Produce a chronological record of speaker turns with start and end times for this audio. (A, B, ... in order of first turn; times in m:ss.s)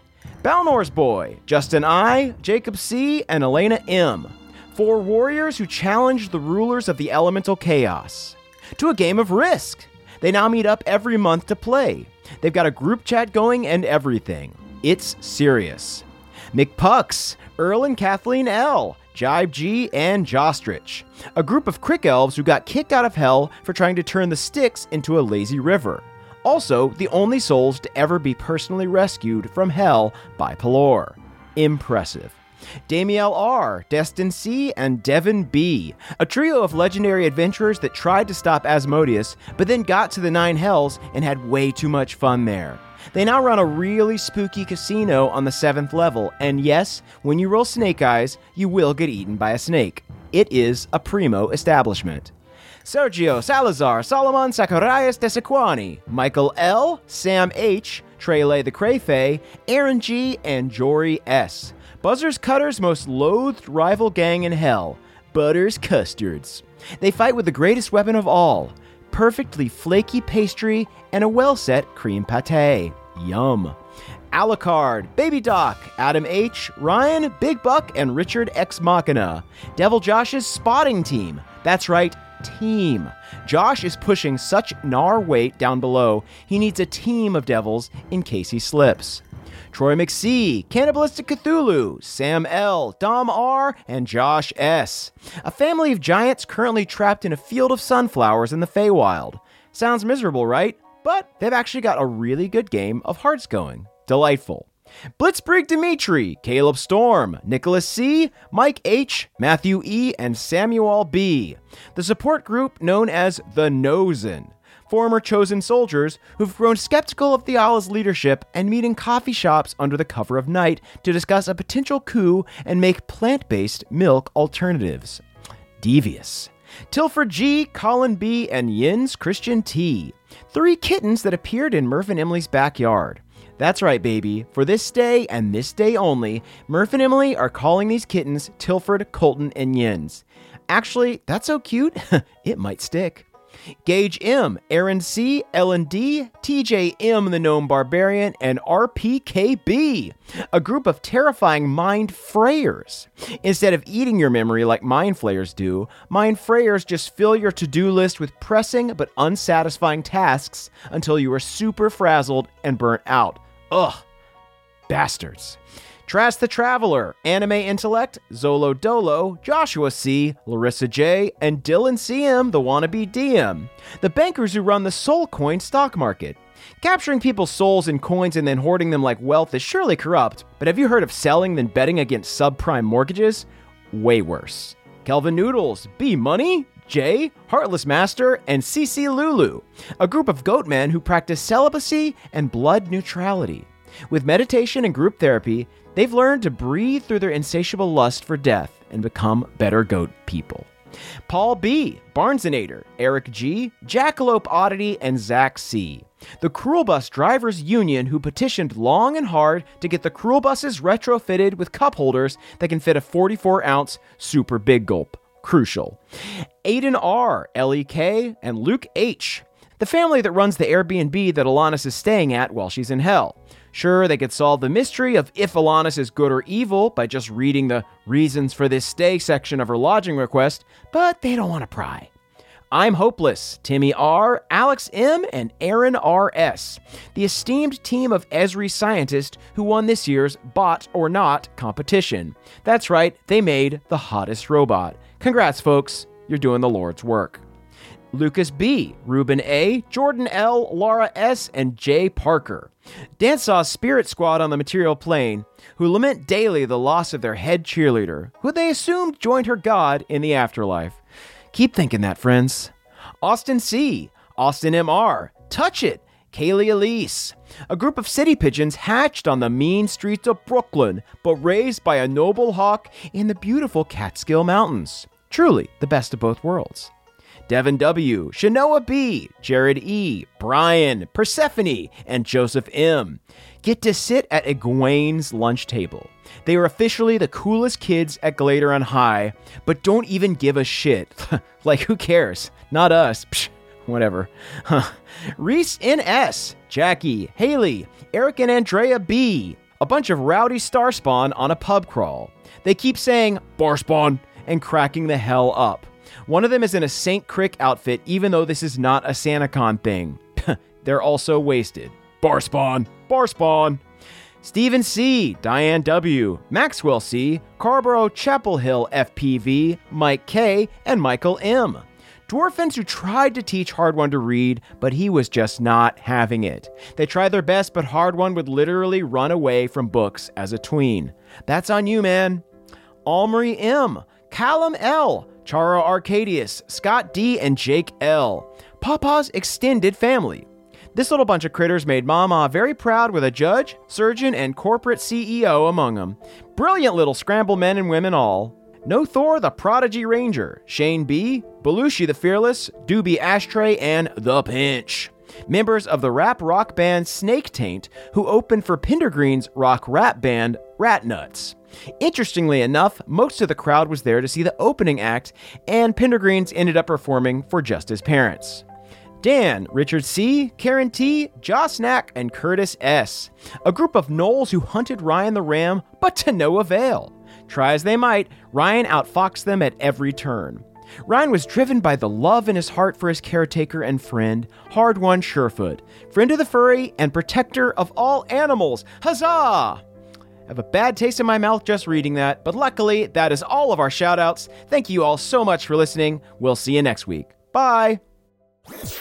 0:00.4-0:32.4 A
0:32.9-0:52.3 A
0:52.8-1:13.8 A
1:14.3-2:05.2 A
2:05.8-2:23.3 A
2:23.8-2:44.0 A
2:44.9-3:20.7 A
3:21.3-3:36.0 A
3:36.6-3:52.1 A
3:52.7-4:07.4 A
4:08.1-4:21.0 A
4:21.5-4:36.9 A
4:37.5-5:13.8 A
5:14.4-5:32.4 A
5:33.1-6:08.6 A
6:09.2-6:29.8 A
6:30.5-6:38.0 A